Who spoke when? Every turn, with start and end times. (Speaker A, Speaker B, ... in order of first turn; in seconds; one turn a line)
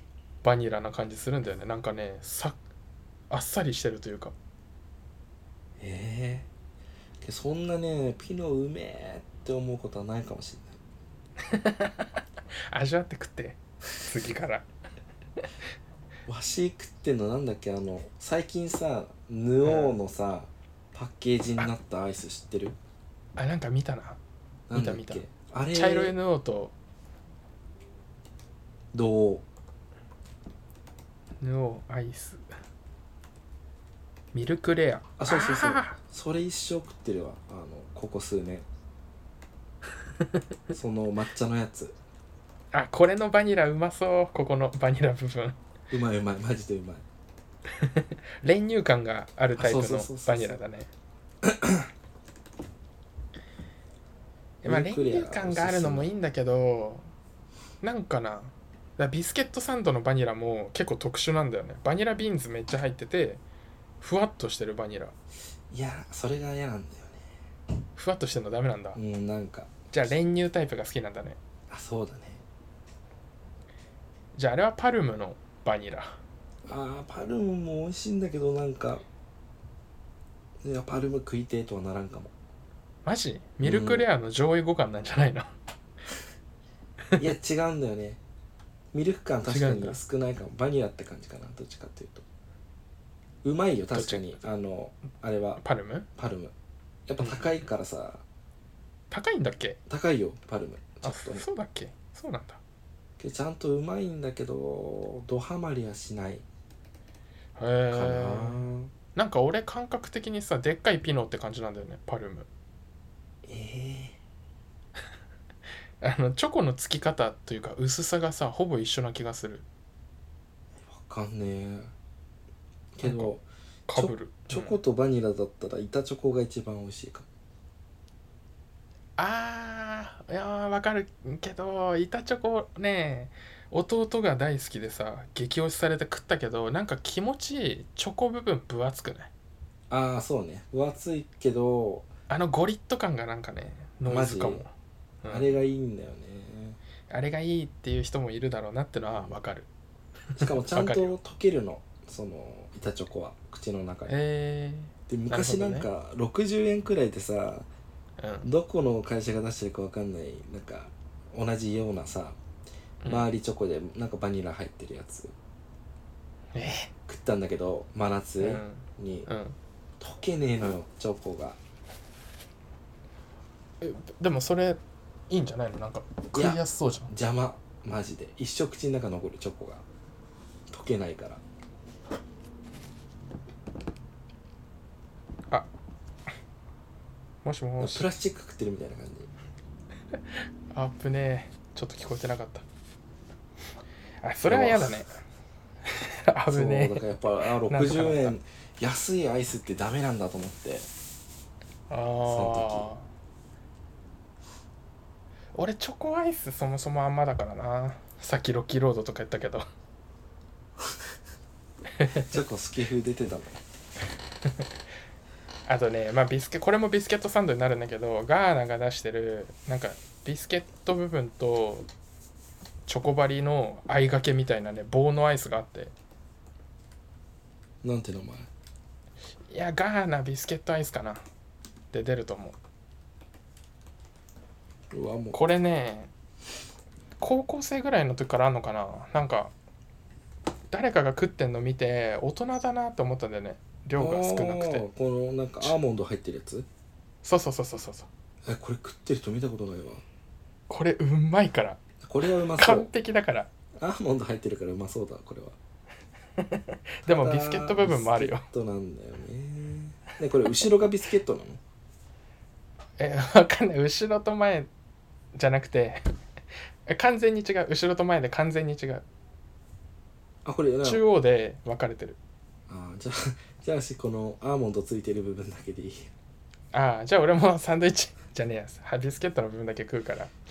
Speaker A: 0.4-2.6
Speaker A: 3.3-4.3
Speaker B: 5.8-6.5
Speaker B: 7.2-10.8
Speaker A: 11.4-12.2
Speaker A: 12.7-14.7
Speaker B: 16.3-22.8
Speaker A: 19.6-19.9
Speaker A: 23.4-24.2
Speaker B: 24.7-26.2
Speaker A: 24.7-26.7
Speaker B: 28.9-29.4
Speaker A: 31.4-32.4
Speaker A: 34.3-36.0
Speaker B: 35.2-38.7
Speaker B: 40.7-42.0
Speaker A: 42.7-45.6
Speaker B: 45.9-47.0
Speaker A: 47.7-50.9
Speaker B: 49.6-50.6
Speaker B: 51.4-51.9
Speaker B: 54.6-56.1
Speaker A: 54.6-57.1
Speaker A: 57.8-63.4
Speaker A: 64.0-65.1
Speaker B: 65.7-67.3
Speaker A: 68.0-69.0
Speaker B: 69.0-69.7
Speaker A: 69.9-71.4
Speaker B: 71.7-72.4
Speaker A: 74.3-76.2
Speaker B: 76.7-79.0
Speaker B: 80.6-82.3
Speaker A: 83.0-85.5
Speaker B: 83.6-84.0
Speaker B: 87.2-88.2
Speaker B: 88.9-92.2
Speaker A: 89.5-90.0
Speaker B: 93.4-95.6
Speaker A: 93.9-94.4
Speaker A: 95.6-96.1
Speaker B: 96.2-96.5
Speaker B: 97.1-98.2
Speaker A: 97.2-97.7
Speaker A: 99.1-99.8
Speaker B: 99.9-101.5
Speaker A: 101.0-102.6
Speaker B: 103.2-106.5
Speaker A: 107.6-112.5
Speaker B: 107.9-108.9
Speaker B: 113.4-114.2
Speaker A: 116.0-119.7
Speaker B: 120.8-121.9
Speaker B: 123.0-123.4
Speaker A: 123.0-123.3
Speaker A: 123.9-124.8
Speaker B: 124.0-127.3
Speaker A: 129.2-139.3
Speaker B: 139.9-142.1
Speaker A: 142.3-144.7
Speaker B: 144.1-144.7
Speaker A: 145.2-145.6
Speaker B: 145.3-146.8
Speaker A: 147.1-149.7
Speaker A: 150.3-151.2
Speaker B: 150.4-154.1
Speaker A: 154.1-155.9
Speaker B: 155.1-157.7
Speaker A: 158.2-158.5
Speaker B: 158.4-162.4
Speaker A: 163.0-163.3
Speaker B: 163.1-165.3
Speaker A: 166.5-166.9
Speaker B: 167.1-169.3
Speaker A: 168.4-169.6
Speaker B: 170.0-171.6
Speaker A: 173.8-177.1
Speaker B: 176.3-179.8
Speaker B: 180.7-181.4
Speaker A: 187.4-188.1
Speaker B: 187.8-189.3
Speaker A: 190.1-192.7
Speaker A: 194.2-195.2
Speaker B: 194.4-194.9
Speaker A: 195.8-197.1
Speaker B: 196.5-200.9
Speaker A: 197.7-198.4
Speaker A: 201.9-203.1
Speaker B: 202.3-202.9
Speaker A: 205.5-209.7
Speaker A: 212.0-212.4
Speaker B: 212.2-213.6
Speaker A: 215.7-221.9
Speaker A: 222.9-225.9
Speaker B: 227.8-228.5
Speaker A: 229.5-231.2
Speaker A: 231.9-232.6
Speaker B: 234.9-235.4
Speaker A: 235.3-236.1
Speaker A: 237.2-239.5
Speaker A: 240.7-244.8
Speaker B: 244.0-246.7
Speaker A: 247.2-248.1
Speaker B: 248.4-250.0
Speaker A: 250.7-253.5
Speaker B: 252.0-252.9
Speaker B: 253.8-255.6
Speaker A: 256.4-258.5
Speaker B: 257.1-261.6
Speaker A: 263.0-264.7
Speaker A: 265.4-266.1
Speaker A: 266.9-269.0
Speaker B: 270.4-271.0
Speaker A: 270.8-272.2
Speaker B: 272.7-276.1
Speaker A: 276.7-280.3